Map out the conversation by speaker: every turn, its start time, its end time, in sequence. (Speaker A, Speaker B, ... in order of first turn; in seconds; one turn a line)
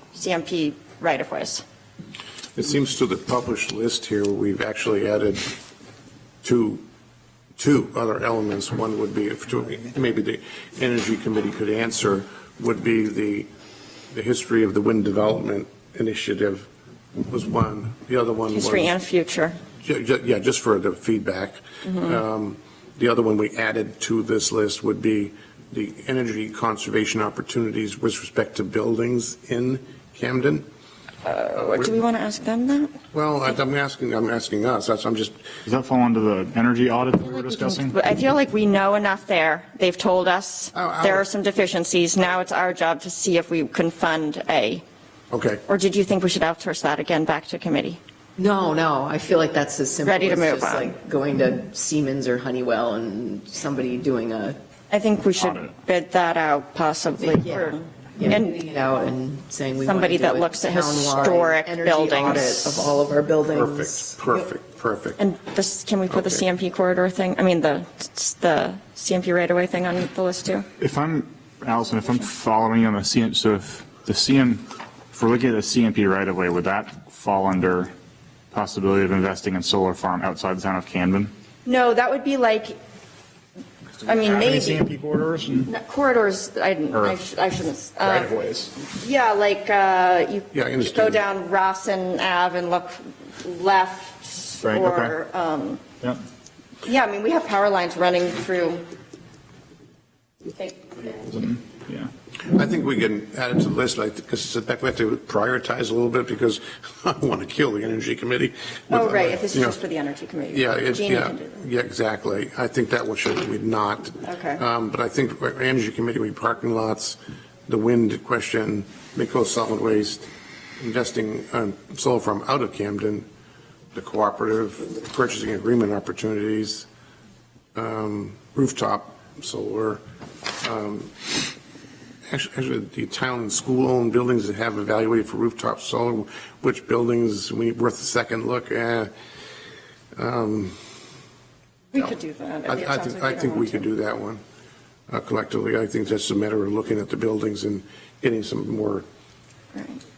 Speaker A: 0.1-1.6
Speaker B: 2.5-5.5
Speaker B: 6.4-6.8
Speaker B: 7.6-13.5
Speaker B: 14.1-16.7
Speaker B: 17.3-18.9
Speaker A: 18.5-19.6
Speaker B: 19.8-30.6
Speaker A: 31.2-32.9
Speaker B: 31.6-32.0
Speaker B: 33.1-35.4
Speaker C: 35.6-37.9
Speaker A: 37.6-44.8
Speaker B: 40.7-41.2
Speaker B: 45.3-45.6
Speaker A: 45.7-48.0
Speaker D: 48.4-54.5
Speaker A: 50.0-50.9
Speaker A: 54.9-58.6
Speaker C: 55.4-55.7
Speaker D: 57.2-64.5
Speaker A: 59.8-62.9
Speaker B: 63.5-65.2
Speaker A: 65.2-70.7
Speaker C: 70.8-77.9
Speaker C: 78.5-81.3
Speaker A: 81.6-82.8
Speaker C: 84.0-85.7
Speaker A: 84.0-84.8
Speaker A: 85.7-88.3
Speaker C: 88.0-88.7
Speaker A: 88.8-95.8
Speaker B: 90.5-91.2
Speaker C: 94.6-95.1
Speaker A: 96.8-98.8
Speaker A: 100.5-101.2
Speaker C: 101.2-102.1
Speaker B: 102.5-109.8
Speaker A: 108.9-111.5
Speaker B: 110.5-120.3
Speaker A: 114.2-114.6
Speaker B: 120.8-123.2
Speaker B: 123.9-126.9
Speaker B: 127.7-130.0
Speaker B: 130.6-131.3
Speaker B: 132.3-139.1
Speaker B: 140.2-140.8
Speaker A: 141.9-143.9
Speaker B: 142.7-144.4
Speaker B: 145.1-149.1
Speaker A: 149.7-150.0